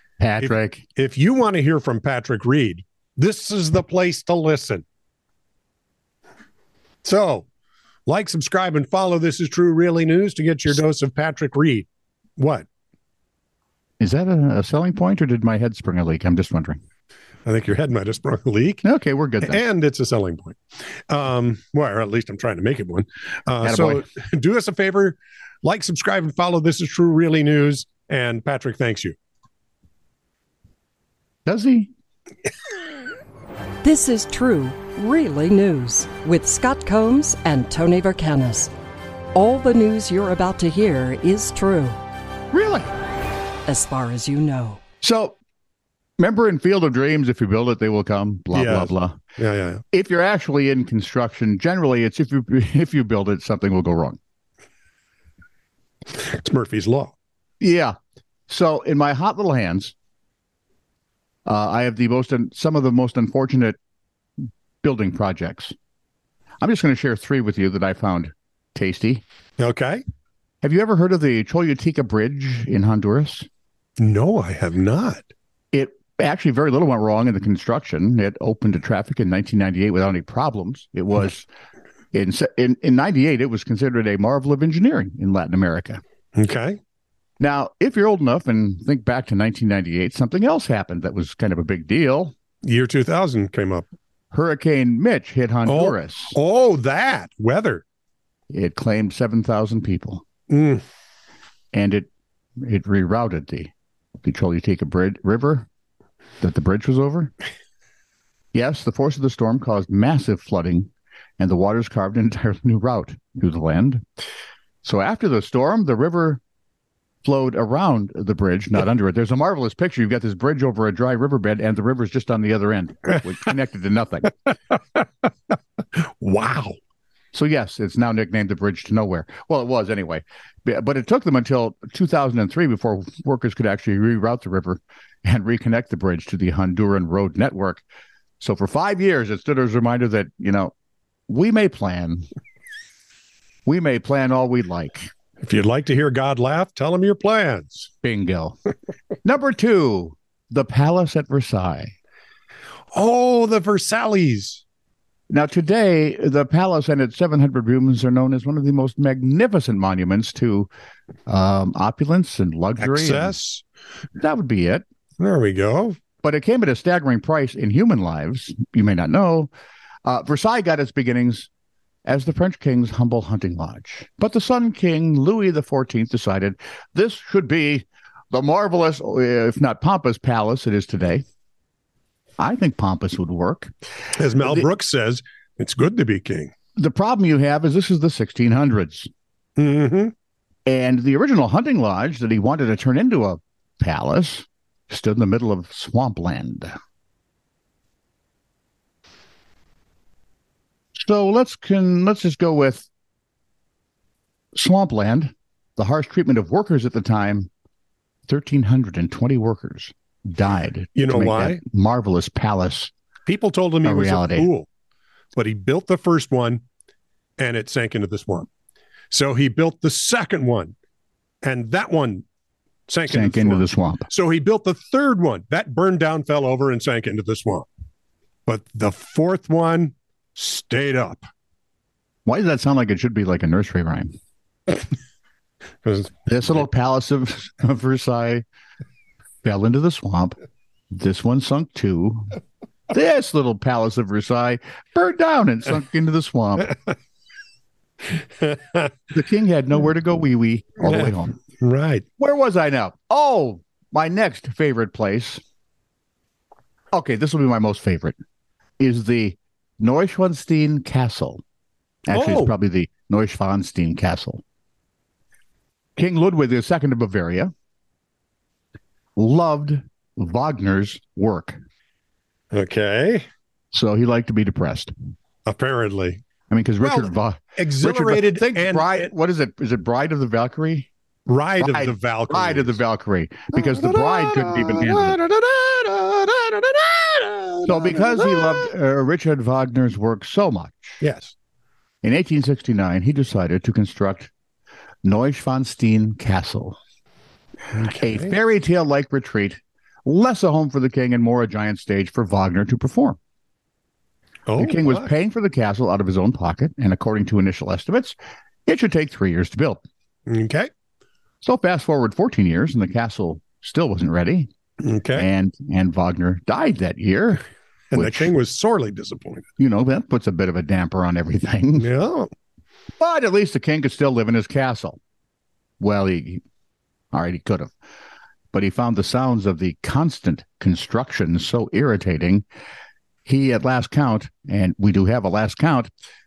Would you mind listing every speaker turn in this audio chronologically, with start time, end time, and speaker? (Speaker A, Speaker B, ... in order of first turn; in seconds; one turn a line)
Speaker A: 0.2-0.8
Speaker B: 0.4-4.8
Speaker B: 7.0-7.5
Speaker B: 8.1-11.8
Speaker B: 12.4-12.7
Speaker A: 14.0-16.8
Speaker B: 17.4-18.8
Speaker A: 18.8-19.6
Speaker B: 19.4-29.2
Speaker A: 23.6-24.0
Speaker A: 31.4-31.9
Speaker C: 33.8-38.7
Speaker C: 39.3-42.0
Speaker A: 42.5-42.9
Speaker C: 43.6-44.8
Speaker A: 45.0-45.4
Speaker A: 46.2-49.2
Speaker B: 48.5-49.8
Speaker A: 49.9-54.2
Speaker B: 56.1-57.1
Speaker A: 57.6-57.9
Speaker A: 58.5-59.9
Speaker A: 61.5-63.8
Speaker A: 64.8-65.7
Speaker A: 66.6-69.2
Speaker B: 69.6-70.0
Speaker A: 70.6-73.5
Speaker B: 74.0-75.3
Speaker A: 75.7-81.5
Speaker A: 82.1-86.0
Speaker B: 86.3-86.8
Speaker A: 87.4-92.3
Speaker B: 92.6-93.9
Speaker A: 94.3-96.3
Speaker B: 95.7-97.8
Speaker A: 98.5-100.2
Speaker B: 100.5-100.8
Speaker A: 101.7-103.7
Speaker A: 104.2-105.7
Speaker A: 106.4-107.3
Speaker A: 108.5-114.0
Speaker A: 114.8-116.4
Speaker A: 117.2-124.3
Speaker B: 126.0-126.8
Speaker A: 127.3-137.8
Speaker A: 138.4-140.7
Speaker A: 141.3-142.2
Speaker A: 143.7-145.1
Speaker B: 145.4-147.9
Speaker A: 148.0-148.6
Speaker A: 149.2-151.9
Speaker B: 152.9-154.6
Speaker A: 155.3-160.7
Speaker A: 161.3-163.3
Speaker B: 162.8-163.6
Speaker A: 164.2-164.8
Speaker B: 165.2-166.0
Speaker A: 166.2-169.5
Speaker A: 170.0-171.5
Speaker A: 172.1-181.2
Speaker A: 182.4-183.7
Speaker B: 184.1-186.5
Speaker A: 184.4-184.7
Speaker A: 186.8-189.1
Speaker B: 189.6-190.1
Speaker A: 190.7-196.7
Speaker A: 200.9-202.9
Speaker A: 204.6-207.5
Speaker A: 208.3-212.9
Speaker B: 210.9-211.6
Speaker B: 213.2-214.7
Speaker A: 213.8-214.5
Speaker B: 215.3-216.6
Speaker B: 217.4-218.5
Speaker B: 219.1-220.7
Speaker B: 221.4-222.2
Speaker B: 222.9-227.7
Speaker A: 223.1-224.1
Speaker B: 228.4-231.2
Speaker A: 232.2-234.2
Speaker B: 235.8-236.2
Speaker A: 236.2-238.4
Speaker A: 239.4-240.3
Speaker A: 240.9-242.3
Speaker A: 242.9-246.7
Speaker B: 248.4-248.9
Speaker A: 249.1-251.4
Speaker B: 250.8-252.0
Speaker A: 252.2-255.4
Speaker A: 256.9-258.1
Speaker A: 258.8-261.4
Speaker A: 262.1-264.4
Speaker B: 262.1-262.5
Speaker A: 265.9-267.5
Speaker A: 269.1-271.6
Speaker B: 272.5-273.2
Speaker A: 273.7-274.9
Speaker B: 275.4-276.2
Speaker A: 276.5-280.9
Speaker B: 276.8-279.1
Speaker B: 281.3-282.8
Speaker A: 281.6-285.2
Speaker B: 283.5-288.7
Speaker A: 287.6-291.0
Speaker B: 291.0-291.3
Speaker A: 292.0-294.3
Speaker A: 295.0-296.8
Speaker B: 297.7-298.3
Speaker A: 298.0-303.2
Speaker B: 304.5-305.1
Speaker A: 304.6-309.8
Speaker B: 310.3-310.7
Speaker A: 311.4-314.5
Speaker B: 314.8-315.3
Speaker A: 315.1-317.4
Speaker B: 317.9-319.4
Speaker A: 317.9-318.3
Speaker A: 319.6-321.9
Speaker B: 321.8-322.3
Speaker A: 323.0-325.0
Speaker A: 325.8-326.4
Speaker A: 327.1-327.7
Speaker A: 328.5-332.4
Speaker A: 333.2-335.9